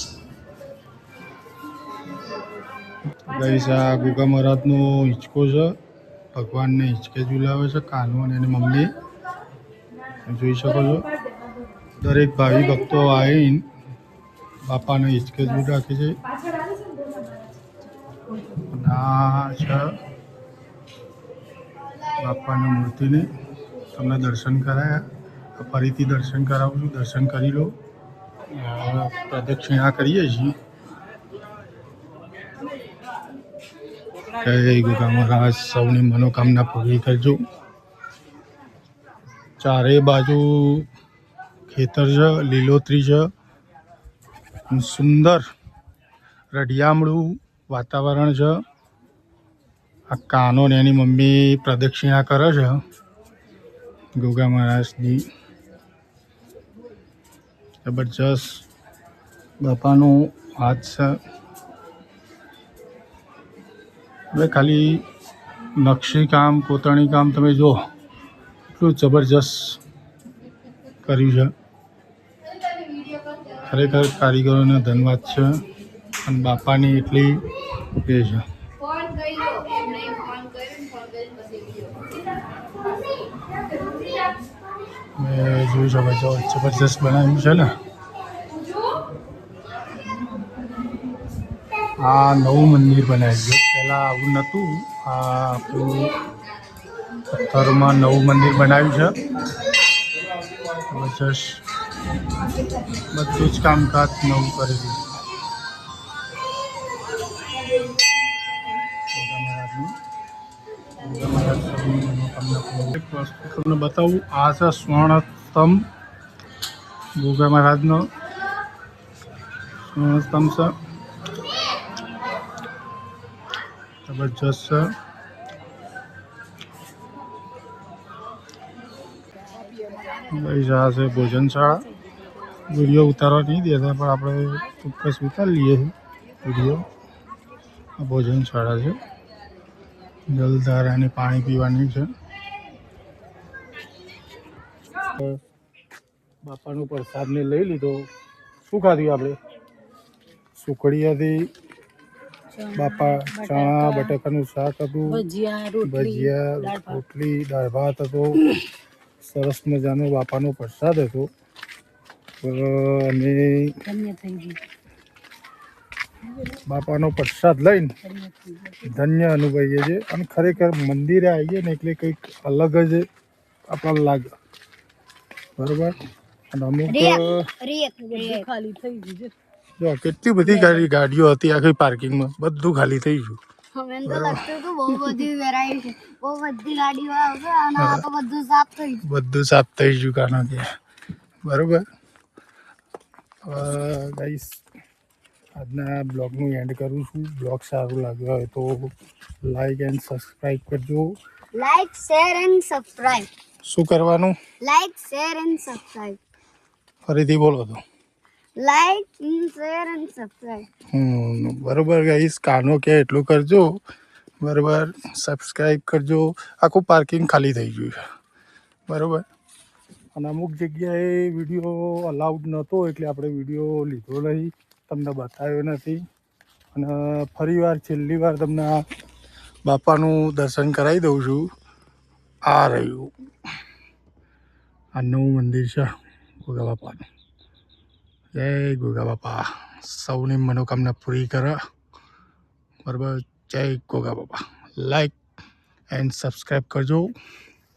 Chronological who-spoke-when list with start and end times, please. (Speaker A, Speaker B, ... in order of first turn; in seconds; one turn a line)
Speaker A: 3.2-5.8
Speaker A: 6.3-8.9
Speaker A: 10.2-11.1
Speaker A: 12.0-13.7
Speaker A: 14.6-16.2
Speaker A: 18.6-19.9
Speaker A: 22.2-23.3
Speaker A: 23.9-27.8
Speaker A: 28.5-30.6
Speaker A: 34.4-37.4
Speaker A: 39.6-40.9
Speaker A: 41.7-43.3
Speaker A: 44.7-45.4
Speaker A: 46.5-48.6
Speaker A: 50.1-52.8
Speaker A: 54.1-55.3
Speaker A: 57.8-58.6
Speaker A: 59.6-61.2
Speaker A: 64.3-65.0
Speaker A: 65.8-67.8
Speaker A: 68.7-69.8
Speaker A: 71.0-71.5
Speaker A: 73.6-75.6
Speaker A: 76.2-77.4
Speaker A: 78.0-78.4
Speaker B: 79.3-80.4
Speaker A: 85.2-87.7
Speaker A: 92.0-96.1
Speaker A: 97.3-99.2
Speaker A: 100.9-101.6
Speaker A: 103.1-105.1
Speaker A: 109.1-109.9
Speaker A: 111.0-115.8
Speaker A: 117.2-118.1
Speaker A: 119.9-120.7
Speaker A: 124.1-124.9
Speaker A: 130.3-131.8
Speaker A: 132.7-136.8
Speaker A: 138.0-139.0
Speaker A: 140.3-142.1
Speaker A: 145.1-145.4
Speaker A: 146.4-148.1
Speaker A: 148.7-149.4
Speaker A: 150.6-151.5
Speaker C: 152.5-154.2
Speaker A: 152.7-155.2
Speaker C: 155.1-157.0
Speaker A: 155.8-158.5
Speaker A: 159.2-161.3
Speaker A: 162.4-163.8
Speaker C: 163.8-164.6
Speaker A: 166.5-167.9
Speaker C: 168.0-168.9
Speaker A: 168.8-173.1
Speaker A: 173.7-174.3
Speaker A: 175.6-176.0
Speaker A: 176.5-177.5
Speaker B: 176.9-178.5
Speaker C: 178.1-179.3
Speaker A: 179.8-183.4
Speaker C: 180.5-180.8
Speaker B: 183.7-189.0
Speaker A: 184.1-185.1
Speaker A: 187.8-188.1
Speaker A: 189.0-190.7
Speaker A: 191.4-191.8
Speaker A: 193.4-194.6
Speaker A: 195.6-198.9
Speaker A: 199.4-201.1
Speaker B: 201.5-203.3
Speaker A: 203.7-204.3
Speaker B: 204.6-206.2
Speaker A: 207.1-207.8
Speaker B: 208.6-210.7
Speaker A: 210.9-213.7
Speaker A: 214.4-218.0
Speaker A: 218.9-219.2
Speaker A: 220.2-226.0
Speaker A: 226.7-228.8
Speaker A: 229.7-231.5
Speaker A: 232.5-233.1
Speaker A: 234.9-235.9
Speaker A: 236.4-237.0
Speaker A: 238.3-241.6
Speaker A: 242.8-245.2
Speaker A: 245.9-247.1